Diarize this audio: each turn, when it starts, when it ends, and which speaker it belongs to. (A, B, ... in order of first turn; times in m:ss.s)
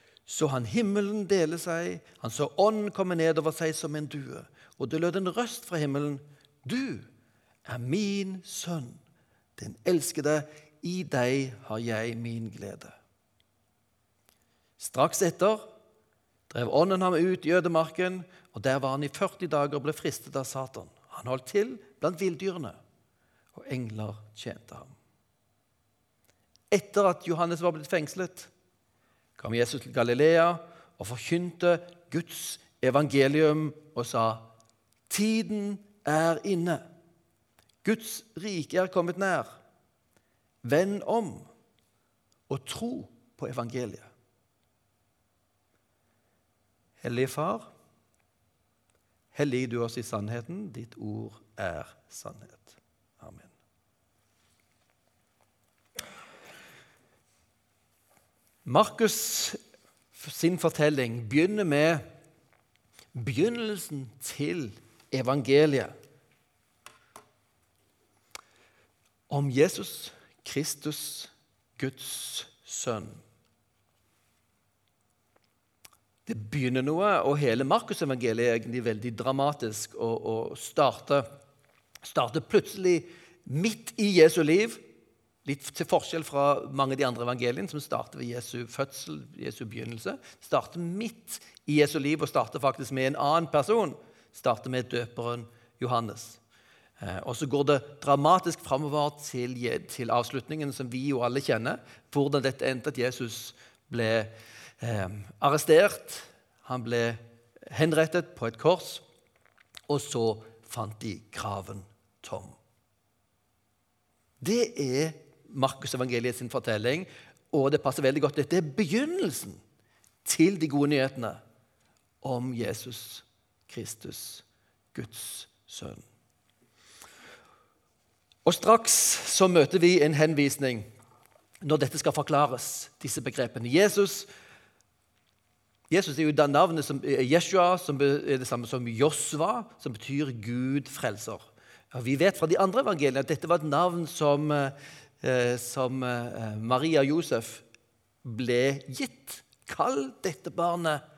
0:00.3-0:07.1 A
0:07.6-0:09.0 A
0:09.6-0:13.0 A
0:14.8-0:15.6 A
0:16.5-0:22.8 A
0:23.5-0:24.9 A
0:26.7-0:28.5 A
0:29.4-0:34.5 A
0:35.1-0:36.8 A
0:37.8-0:39.6 A
0:40.6-0:41.5 A
0:42.5-0:44.1 A
0:47.0-0:47.7 A
0:49.3-0:53.5 A
0:58.6-0:59.6 A
1:00.1-1:02.0 A
1:03.1-1:05.9 A
1:09.3-1:13.2 A
1:16.3-1:21.3 A
1:22.0-1:24.8 A
1:25.4-1:36.4 A
1:37.0-1:49.0 A
1:49.9-1:52.6 A
1:54.4-1:59.6 A
2:00.2-2:01.4 A
2:02.2-2:06.0 A
2:08.4-2:10.9 A
2:11.6-2:14.3 A
2:15.9-2:27.6 A
2:28.2-2:31.0 A